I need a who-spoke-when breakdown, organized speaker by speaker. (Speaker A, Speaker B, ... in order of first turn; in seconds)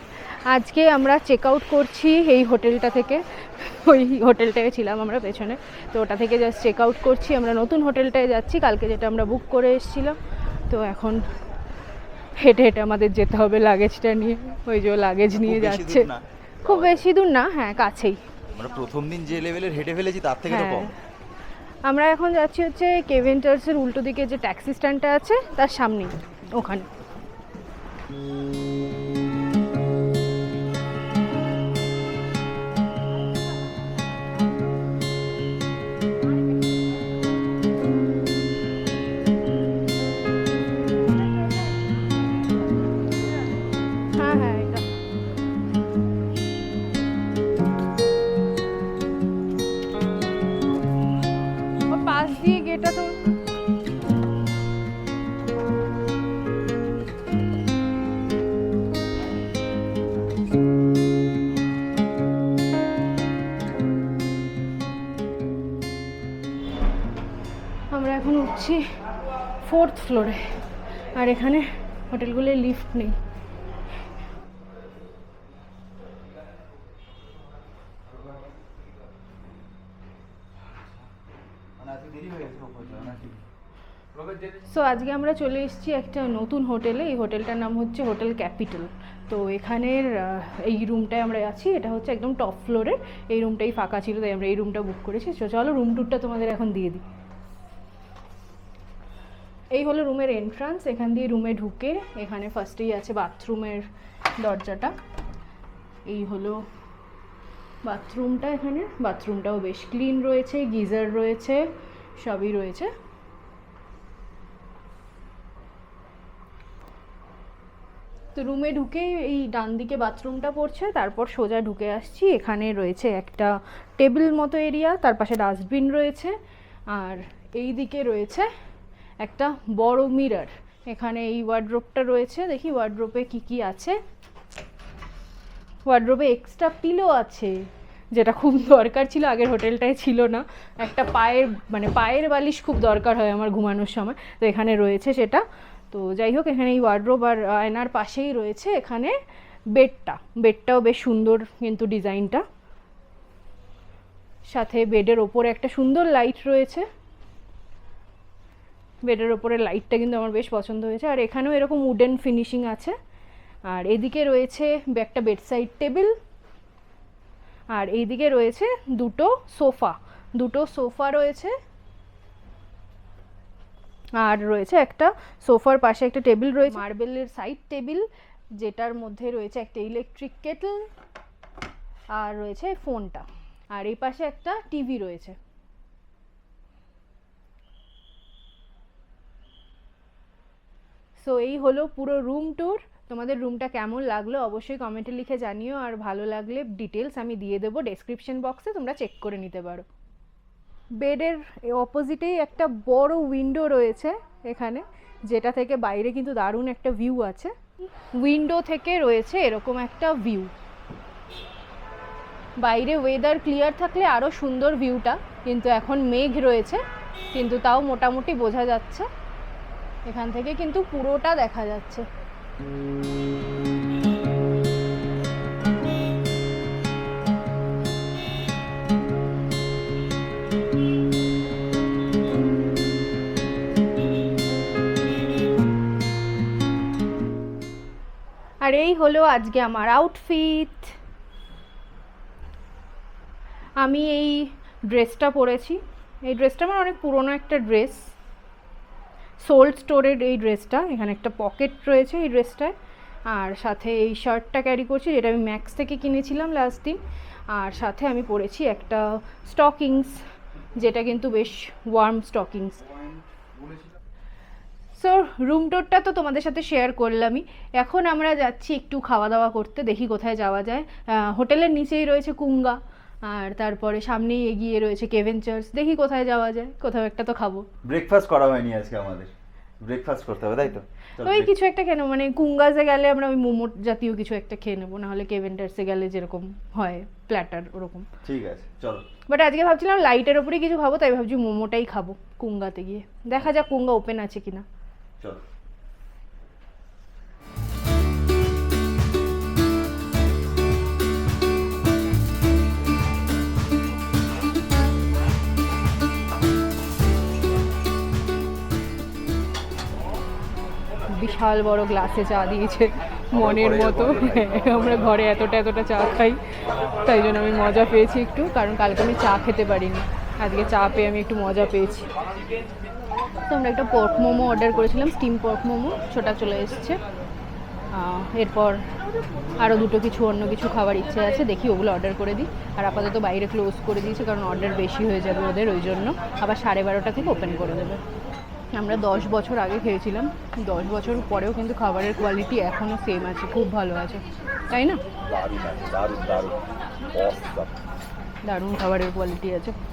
Speaker A: 0.5-10.2, 10.7-11.3, 12.4-16.1, 16.6-18.2, 20.5-20.9, 21.9-26.9, 44.2-44.9, 51.9-53.1, 67.9-68.9, 69.6-70.6, 71.2-73.2, 84.7-97.0, 99.7-105.0, 106.1-106.6, 107.8-111.7, 112.2-112.9, 118.3-126.4, 126.9-128.5, 129.2-134.0, 135.9-149.2, 149.8-152.4, 154.5-156.9, 159.1-162.9, 163.7-166.1, 167.7-171.5, 174.2-178.1, 178.6-180.9, 182.1-185.4, 191.2-199.9, 201.0-210.5, 212.6-216.8, 217.3-219.1, 220.1-222.1, 238.6-241.0, 243.8-248.1, 249.4-252.7, 253.3-260.2, 260.8-262.8, 264.9-277.7, 281.2-288.1, 289.3-294.6, 311.1-316.4, 317.0-322.1, 323.5-327.0, 327.9-328.8, 329.6-338.0, 338.8-345.0, 348.5-349.8
Speaker B: 15.3-17.0, 18.5-20.9, 81.8-83.4, 277.8-281.5, 288.2-289.1, 313.3-315.1, 345.2-347.7